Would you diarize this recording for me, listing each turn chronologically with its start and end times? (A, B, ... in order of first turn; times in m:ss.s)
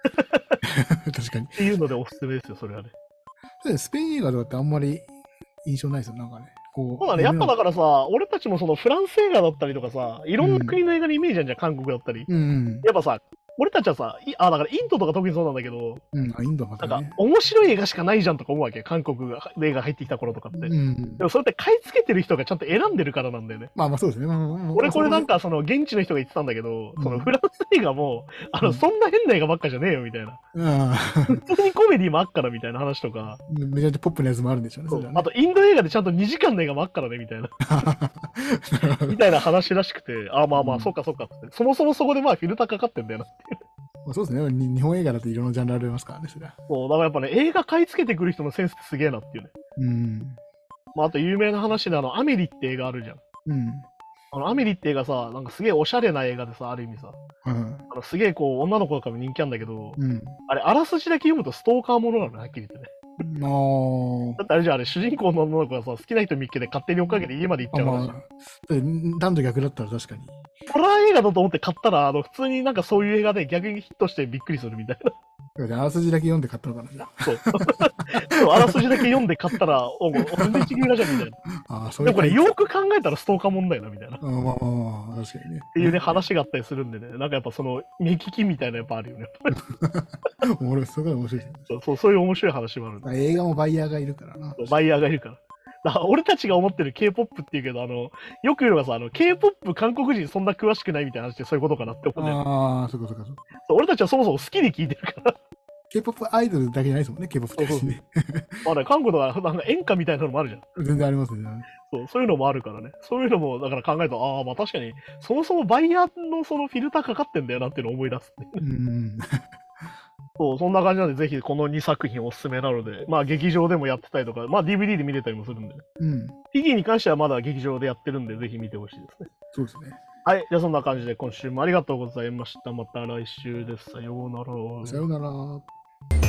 0:00.2-0:00.6 A
0:00.7-0:01.6 B
0:01.6-0:02.9 A
0:03.6-0:05.1 B
0:05.6-0:07.6 B
0:07.0-0:12.3 A
0:10.4-0:10.8 B
0:12.3-0:12.9 B
0:12.8-0:16.0 A
0:16.1-0:17.2 B
0:16.8-0:23.7 A
0:20.5-0:21.3 B
0:23.8-0:25.3 B
0:24.7-0:30.4 A
0:27.0-0:27.3 B
0:30.5-0:31.4 B
0:31.3-0:33.4 A
0:33.5-0:35.3 B
0:34.9-0:37.5 A
0:37.7-0:39.2 B
0:39.1-0:43.6 A
0:40.6-0:40.9 B
0:44.0-0:46.6 B
0:46.7-0:49.5 A
0:49.8-0:50.4 B
0:51.0-0:53.2 A
0:53.5-0:53.9 B
0:54.3-0:57.2 A
0:57.4-0:57.8 B
0:57.9-1:03.2 A
1:00.0-1:00.4 B
1:03.2-1:04.4 B
1:04.4-1:08.2 A
1:07.7-1:10.4 B
1:10.7-1:15.1 A
1:15.6-1:17.6 B
1:17.2-1:21.4 A
1:18.6-1:19.1 B
1:20.4-1:20.8 B
1:21.6-1:22.6 B
1:22.0-1:24.2 A
1:24.2-1:26.2 B
1:25.7-1:29.6 A
1:29.6-1:31.7 B
1:31.7-1:33.1 A
1:33.0-1:34.8 B
1:34.6-1:42.4 A
1:42.2-1:43.4 B
1:43.6-1:45.3 A
1:45.9-1:48.7 B
1:47.6-1:47.9 A
1:48.6-1:50.6 A
1:50.8-1:51.7 B
1:51.8-1:58.6 A
1:58.6-1:59.9 B
2:00.4-2:05.8 A
2:06.0-2:06.4 B
2:06.5-2:09.3 A
2:09.5-2:10.0 B
2:10.2-2:15.0 A
2:14.8-2:15.7 B